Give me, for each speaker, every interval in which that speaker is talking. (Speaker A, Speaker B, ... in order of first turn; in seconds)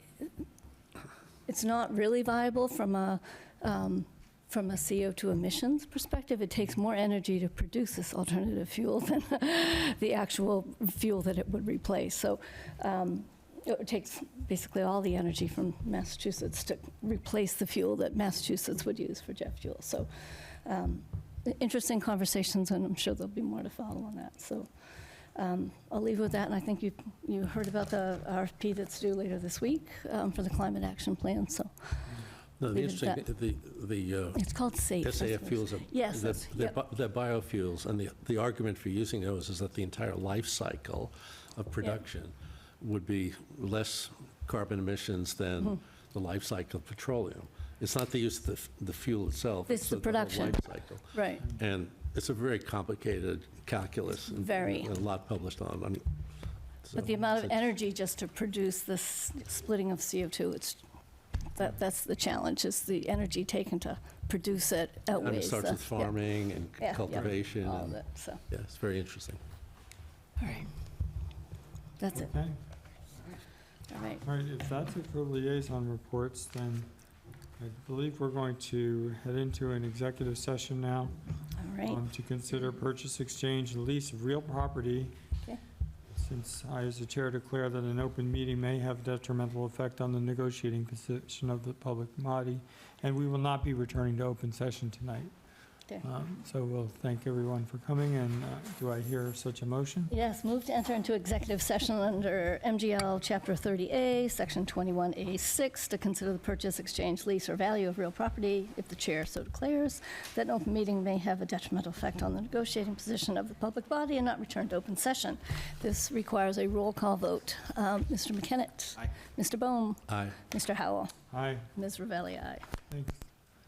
Speaker A: 1.4-20.1, 20.6-24.7, 25.3-33.2, 34.3-36.8, 49.7-51.5, 54.3-54.9, 56.9-60.8, 61.5-66.2, 66.8-68.4, 70.4-70.7, 72.0-72.3, 73.9-74.2, 81.5-82.0, 100.1-122.6
Speaker B: 32.6-56.0, 56.8-57.5, 65.2-68.0, 68.5-69.4, 120.1-120.3
Speaker C: 72.1-72.6, 74.2-76.9, 77.6-81.2, 81.8-85.1, 86.1-95.3, 96.0-100.1, 121.3-121.7, 122.9-123.3